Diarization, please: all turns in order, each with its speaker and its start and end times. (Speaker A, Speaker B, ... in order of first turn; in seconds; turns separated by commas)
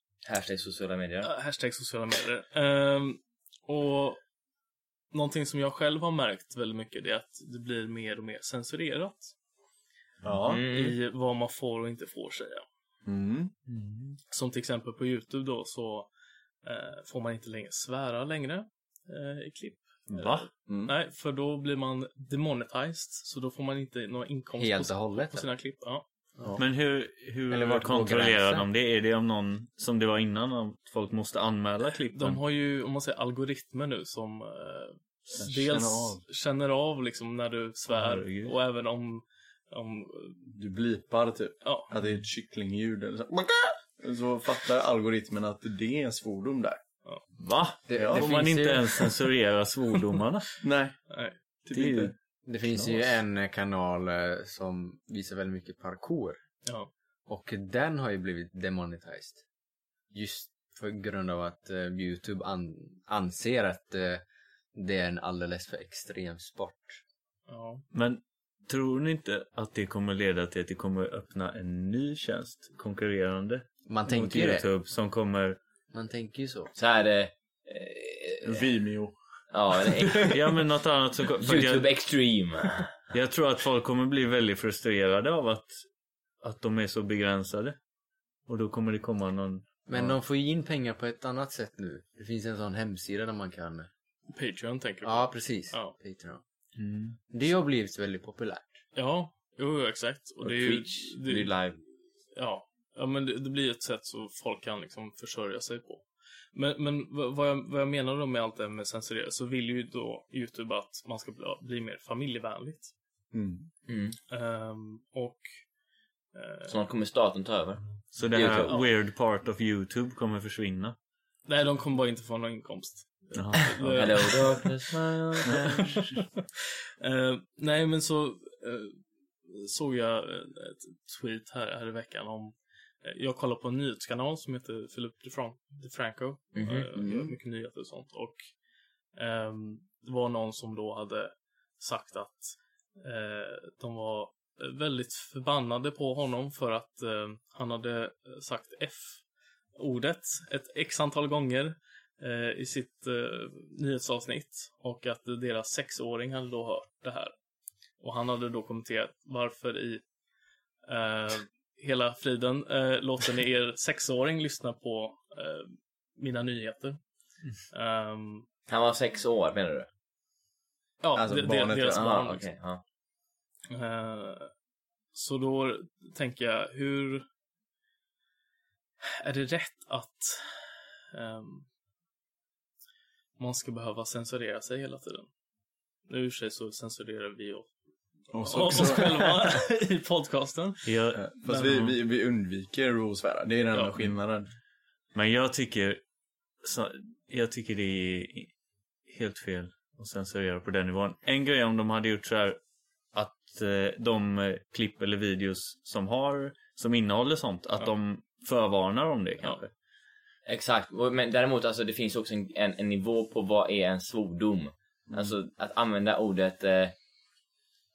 Speaker A: 0.2-1.3, Speaker B: 1.2-4.2, Speaker B: 5.1-9.3, Speaker C: 10.2-10.6, Speaker A: 10.4-11.0, Speaker B: 10.7-12.6, Speaker C: 13.1-13.5, Speaker D: 13.7-14.2, Speaker B: 14.3-16.1, Speaker B: 16.6-26.5, Speaker D: 20.1-20.5, Speaker C: 20.6-20.9, Speaker E: 24.6-25.5, Speaker D: 26.6-32.4, Speaker E: 27.5-28.7, Speaker B: 32.1-40.4, Speaker C: 35.3-36.2, Speaker D: 37.9-38.5, Speaker C: 40.5-46.8, Speaker B: 41.6-41.9, Speaker D: 47.4-50.6, Speaker E: 47.9-49.0, Speaker C: 48.0-48.3, Speaker C: 50.6-51.0, Speaker B: 51.1-51.4, Speaker C: 51.6-52.1, Speaker D: 51.7-52.1, Speaker E: 52.4-56.4, Speaker E: 57.3-59.4, Speaker E: 60.1-64.2, Speaker E: 64.7-67.0, Speaker B: 67.5-67.8, Speaker D: 67.9-75.6, Speaker E: 73.9-74.6, Speaker E: 75.9-76.7, Speaker A: 76.8-78.6, Speaker C: 78.4-79.1, Speaker A: 79.5-80.3, Speaker C: 79.8-80.3, Speaker D: 80.2-81.9, Speaker A: 81.4-83.0, Speaker D: 83.1-85.8, Speaker D: 86.4-87.8, Speaker D: 88.5-90.1, Speaker E: 89.9-93.9, Speaker B: 94.3-95.9, Speaker E: 95.0-96.4, Speaker D: 96.8-97.2, Speaker E: 97.3-98.8, Speaker B: 98.9-101.6, Speaker A: 100.4-101.8, Speaker B: 102.3-112.9, Speaker C: 113.3-113.7, Speaker A: 113.9-114.2, Speaker B: 114.3-115.6, Speaker B: 116.3-116.7, Speaker A: 116.7-118.8, Speaker D: 118.1-121.0, Speaker B: 121.5-126.3, Speaker D: 123.3-124.2, Speaker A: 123.7-126.0, Speaker D: 125.4-125.8, Speaker B: 127.0-138.4, Speaker A: 136.6-136.9, Speaker C: 136.9-137.3, Speaker B: 139.1-149.2, Speaker B: 149.8-157.3, Speaker B: 158.0-160.0, Speaker B: 160.9-167.0, Speaker B: 167.7-168.4, Speaker A: 168.7-169.9, Speaker B: 171.0-172.4, Speaker C: 171.1-172.2, Speaker A: 171.9-172.8, Speaker B: 173.7-174.5, Speaker B: 175.1-177.2, Speaker B: 179.0-181.7, Speaker B: 183.4-185.3, Speaker B: 186.1-187.7, Speaker C: 188.3-189.6, Speaker B: 188.4-191.7, Speaker D: 190.8-191.9, Speaker C: 191.1-194.5, Speaker D: 195.1-196.0, Speaker D: 196.6-198.5, Speaker D: 199.1-202.6, Speaker D: 203.1-209.7, Speaker A: 210.4-216.9